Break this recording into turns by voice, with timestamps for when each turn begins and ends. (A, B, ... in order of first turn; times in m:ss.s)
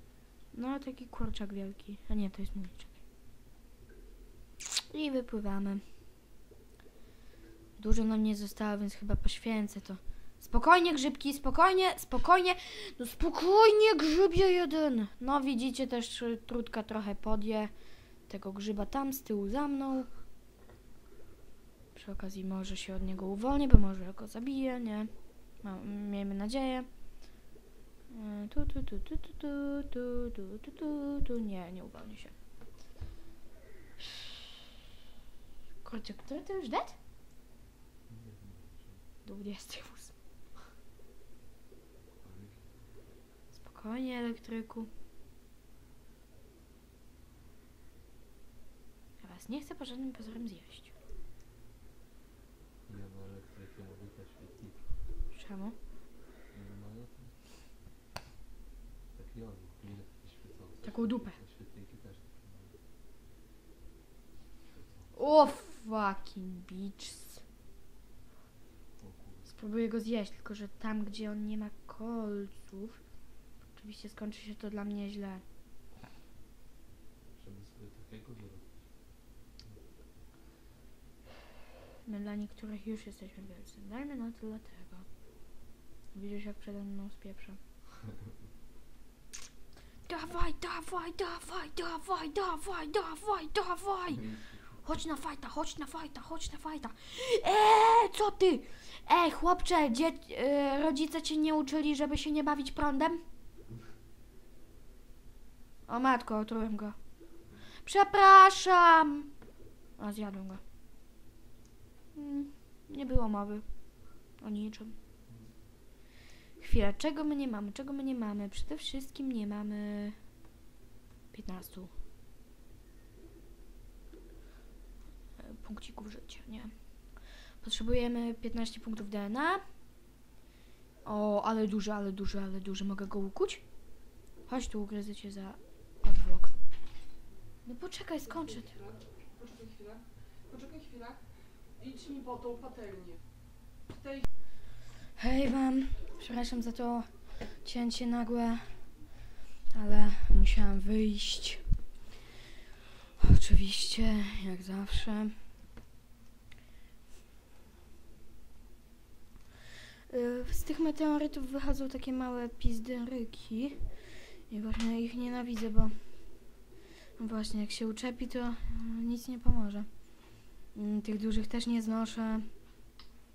0:00.5-0:02.9 A
0:04.9-0:05.8 A
0:07.8-0:17.7 A
0:18.3-0:20.1 A
0:21.9-0:25.1 A
0:25.6-0:26.9 A
0:28.1-0:32.3 A
0:34.0-0:34.5 A
0:35.8-0:37.0 A
0:38.1-0:39.0 B
0:39.2-0:40.1 A
0:42.2-0:42.7 B
0:43.5-0:44.9 A
0:49.2-0:50.9 A
0:52.8-0:54.9 B
0:55.3-0:55.8 A
0:56.5-0:57.3 B
0:59.1-1:02.7 B
1:00.8-1:01.4 A
1:04.6-1:05.2 B
1:05.1-1:07.4 A
1:09.0-1:09.5 B
1:09.5-1:13.0 A
1:13.8-1:15.4 A
1:17.3-1:18.8 B
1:22.0-1:25.0 A
1:26.1-1:27.6 A
1:28.0-1:28.3 B
1:30.0-1:34.2 A
1:34.1-1:34.9 B
1:34.8-1:43.2 A
1:45.9-1:47.0 A
1:47.8-1:49.3 A
1:50.0-1:50.6 A
1:52.1-1:53.6 A
1:54.4-1:55.0 A
1:55.2-1:55.5 B
1:56.6-2:00.2 A
2:01.3-2:01.9 A
2:05.4-2:06.7 A
2:07.6-2:09.6 A
2:11.0-2:13.6 A
2:14.5-2:16.5 A
2:17.6-2:18.8 A
2:18.5-2:21.2 C
2:21.8-2:23.2 C
2:23.9-2:24.2 C
2:25.2-2:27.1 A
2:27.6-2:28.8 A
2:29.7-2:31.6 A
2:33.2-2:35.4 A
2:40.1-2:43.9 A
2:44.5-2:45.9 A
2:47.2-2:49.9 A
2:50.7-2:52.5 A